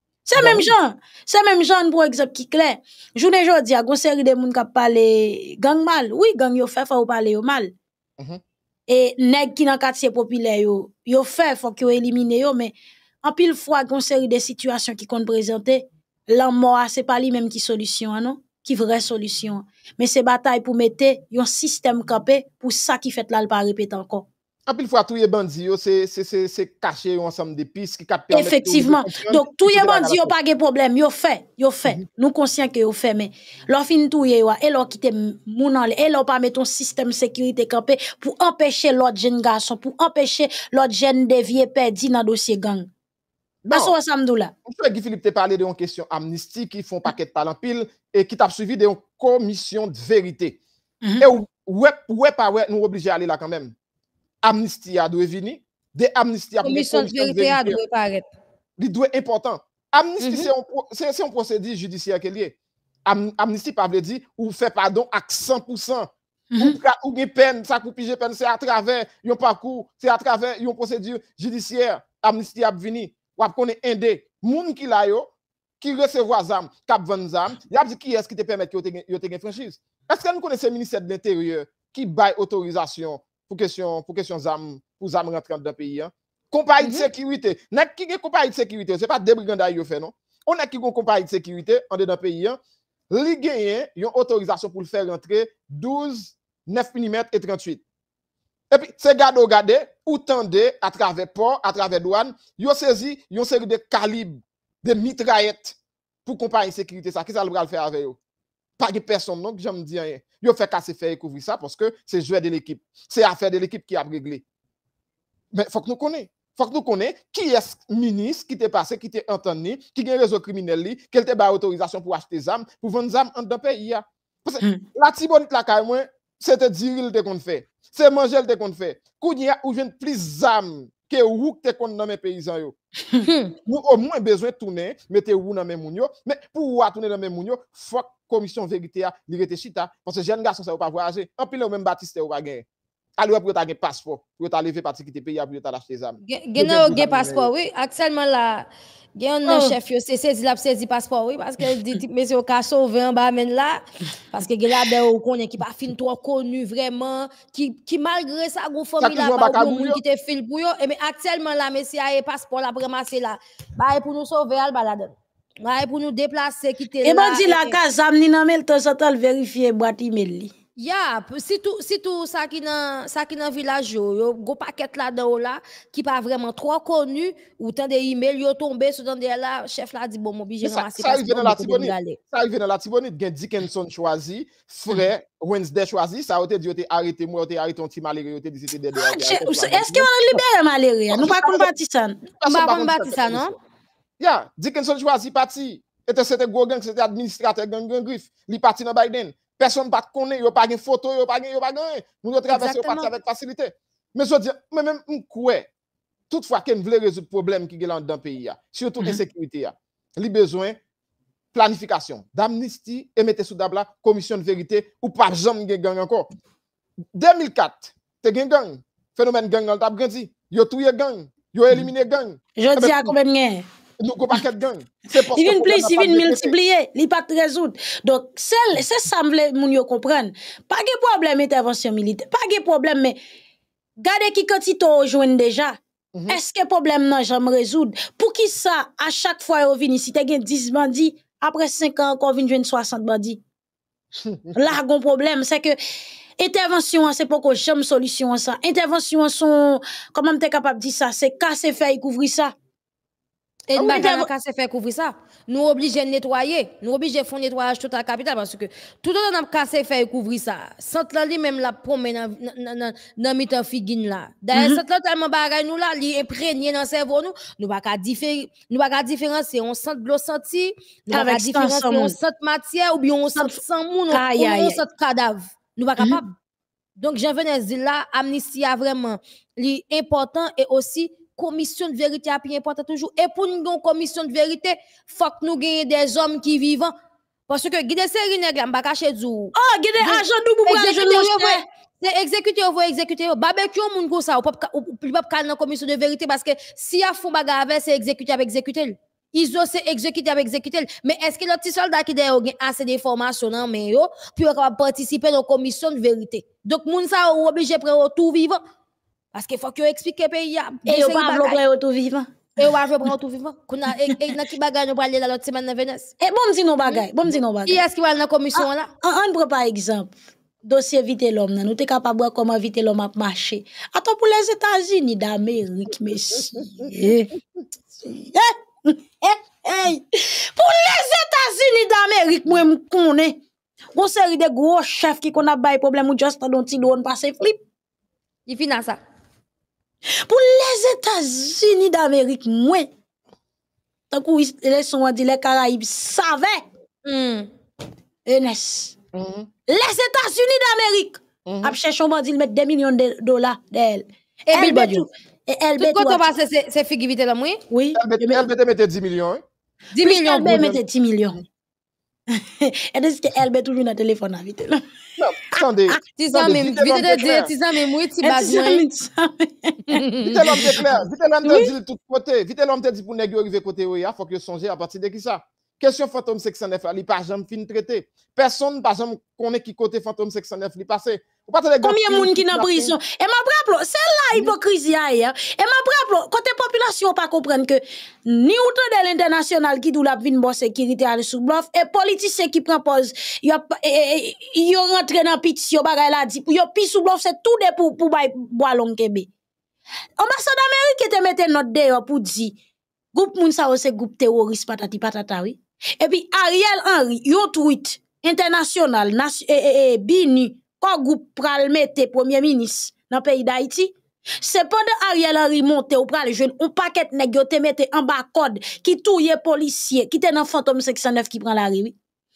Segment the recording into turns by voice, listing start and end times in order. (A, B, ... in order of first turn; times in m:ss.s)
0:00.2-0:07.7 A
0:00.4-0:00.7 B
0:08.9-0:24.3 A
0:24.7-0:30.3 B
0:28.3-0:42.9 A
0:43.6-0:43.9 B
0:43.7-0:44.5 A
0:44.6-0:50.6 B
0:51.2-0:53.7 B
0:54.4-0:57.8 B
0:56.6-0:58.2 C
0:58.8-1:32.6 B
1:00.2-1:00.5 C
1:06.5-1:06.8 A
1:26.8-1:27.0 C
1:33.1-1:37.8 B
1:38.7-1:48.2 B
1:48.8-1:54.4 B
1:55.5-2:12.7 B
2:13.2-2:13.5 C
2:13.6-2:22.6 B
2:23.2-2:27.5 B
2:26.2-2:47.8 C
2:29.5-2:29.7 A
2:39.0-2:40.0 B
2:47.0-2:50.5 A
2:50.8-3:02.2 C
3:00.6-3:10.4 B
3:08.9-3:12.2 A
3:11.1-3:11.7 B
3:12.4-3:13.5 B
3:12.4-3:13.5 C
3:14.2-3:25.7 B
3:22.5-3:23.1 C
3:26.3-3:30.8 B
3:31.5-3:36.3 B
3:37.1-3:43.1 B
3:42.6-3:43.6 A
3:44.0-3:46.5 B
3:45.2-3:53.2 A
3:54.0-4:03.4 A
4:04.2-4:04.6 B
4:04.5-4:05.8 A
4:06.4-4:12.5 A
4:13.7-4:14.3 A
4:13.7-4:36.3 C
4:24.5-4:24.8 A
4:31.1-4:32.1 A
4:33.3-4:33.6 A
4:34.1-4:34.8 A
4:37.0-4:46.9 C
4:47.5-5:08.6 C
4:49.5-4:51.6 A
5:09.3-5:11.6 C
5:10.8-5:12.5 A
5:12.6-5:16.1 C
5:16.2-5:17.8 A
5:17.6-5:18.9 C
5:18.6-5:27.3 A
5:26.6-5:26.9 B
5:28.0-5:33.4 A
5:33.9-5:37.6 A
5:38.5-5:39.0 C
5:40.2-5:42.9 A
5:44.1-5:46.6 A
5:47.0-5:47.5 C
5:48.2-5:49.0 A
5:49.1-5:49.5 B
5:49.7-5:56.2 A
5:51.4-5:51.8 B
5:54.5-5:55.1 C
5:55.8-5:57.6 C
5:57.7-5:58.4 A
5:58.0-5:59.4 B
5:59.9-6:00.7 C
6:00.0-6:01.4 A
6:00.4-6:00.8 B
6:02.3-6:04.8 A
6:05.2-6:07.5 B
6:06.2-6:08.8 C
6:08.2-6:10.0 A
6:09.9-6:10.8 C
6:10.2-6:22.9 B
6:11.4-6:11.7 A
6:21.8-6:39.3 A
6:40.2-6:42.6 A
6:43.1-7:02.0 A